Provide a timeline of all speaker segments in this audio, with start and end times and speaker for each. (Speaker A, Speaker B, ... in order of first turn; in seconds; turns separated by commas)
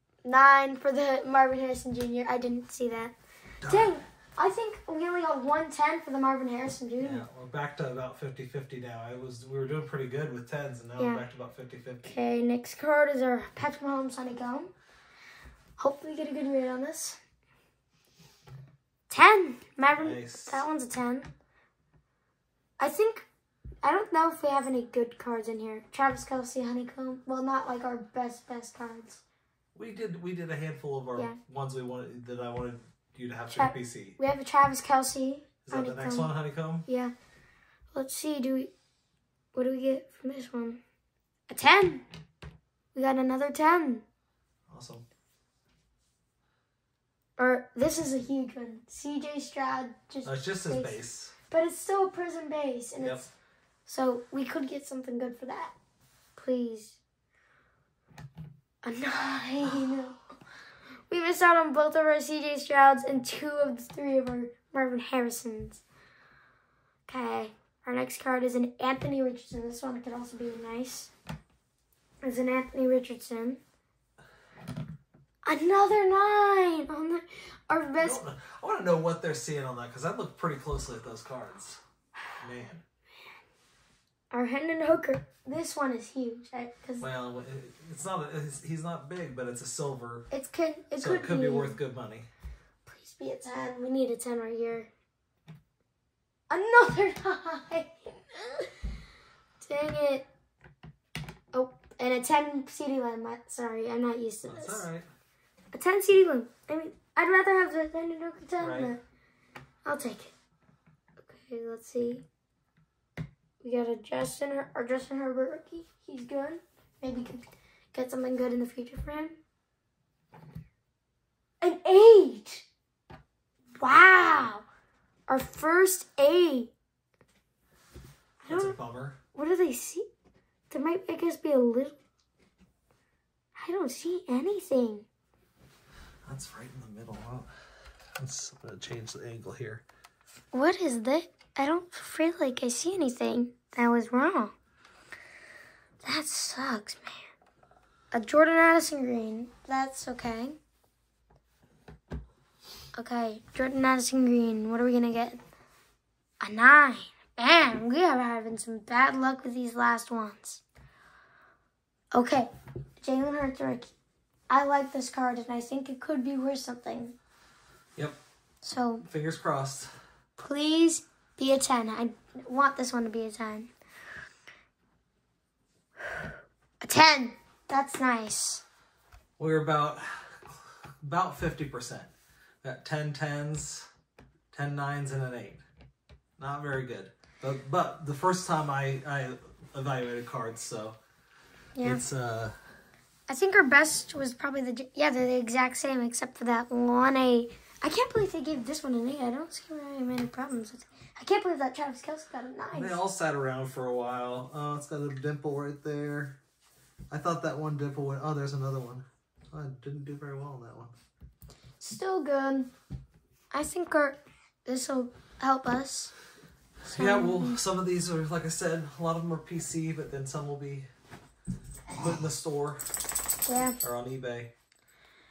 Speaker A: 0.2-7.2, Speaker B: 3.6-4.0, Speaker B: 7.0-12.1, Speaker A: 11.0-11.2, Speaker A: 12.0-14.7, Speaker A: 15.8-17.2, Speaker A: 19.1-21.3, Speaker B: 19.9-20.6, Speaker A: 22.8-23.3, Speaker A: 23.8-29.2, Speaker B: 29.7-34.2, Speaker A: 33.5-36.3, Speaker B: 35.6-36.9, Speaker A: 36.9-37.1, Speaker A: 37.9-38.7, Speaker A: 39.5-40.8, Speaker A: 41.5-42.0, Speaker A: 42.9-44.0, Speaker B: 44.7-45.0, Speaker A: 47.4-51.0, Speaker B: 50.2-51.3, Speaker A: 51.5-53.3, Speaker B: 53.0-53.3, Speaker A: 53.9-55.7, Speaker A: 56.4-57.0, Speaker A: 58.8-60.2, Speaker A: 61.1-65.8, Speaker A: 67.1-71.1, Speaker A: 72.2-73.6, Speaker A: 75.4-78.2, Speaker B: 78.0-81.8, Speaker B: 82.4-82.8, Speaker A: 84.3-87.0, Speaker B: 87.0-90.3, Speaker A: 90.3-91.8, Speaker B: 91.0-92.3, Speaker A: 92.8-94.9, Speaker A: 96.5-98.8, Speaker A: 99.6-100.2, Speaker A: 101.5-104.8, Speaker B: 104.5-105.1, Speaker A: 105.7-109.0, Speaker B: 108.6-108.9, Speaker A: 109.8-110.3, Speaker A: 111.2-112.2, Speaker A: 113.6-119.4, Speaker A: 121.6-122.7, Speaker A: 123.8-124.6, Speaker A: 125.3-126.7, Speaker A: 128.4-128.8, Speaker B: 128.5-129.2, Speaker A: 129.3-130.1, Speaker A: 130.7-131.9, Speaker A: 133.6-135.1, Speaker B: 136.2-137.5, Speaker B: 138.2-139.8, Speaker A: 140.5-144.5, Speaker A: 146.0-147.2, Speaker A: 148.1-150.6, Speaker A: 152.9-155.4, Speaker A: 156.4-160.6, Speaker A: 162.1-163.9, Speaker A: 164.5-167.1, Speaker A: 168.6-169.1, Speaker B: 169.0-169.9, Speaker A: 170.4-173.7, Speaker A: 176.8-178.6, Speaker B: 179.4-182.1, Speaker B: 182.6-183.8, Speaker B: 184.5-185.6, Speaker B: 186.4-191.0, Speaker A: 191.8-192.1, Speaker B: 191.8-192.6, Speaker A: 193.3-203.0, Speaker B: 202.7-206.4, Speaker B: 207.1-210.9, Speaker A: 211.8-212.7, Speaker A: 213.5-216.1, Speaker B: 216.8-220.9, Speaker A: 216.8-217.6, Speaker B: 221.9-222.8, Speaker A: 223.4-223.8, Speaker B: 223.8-224.5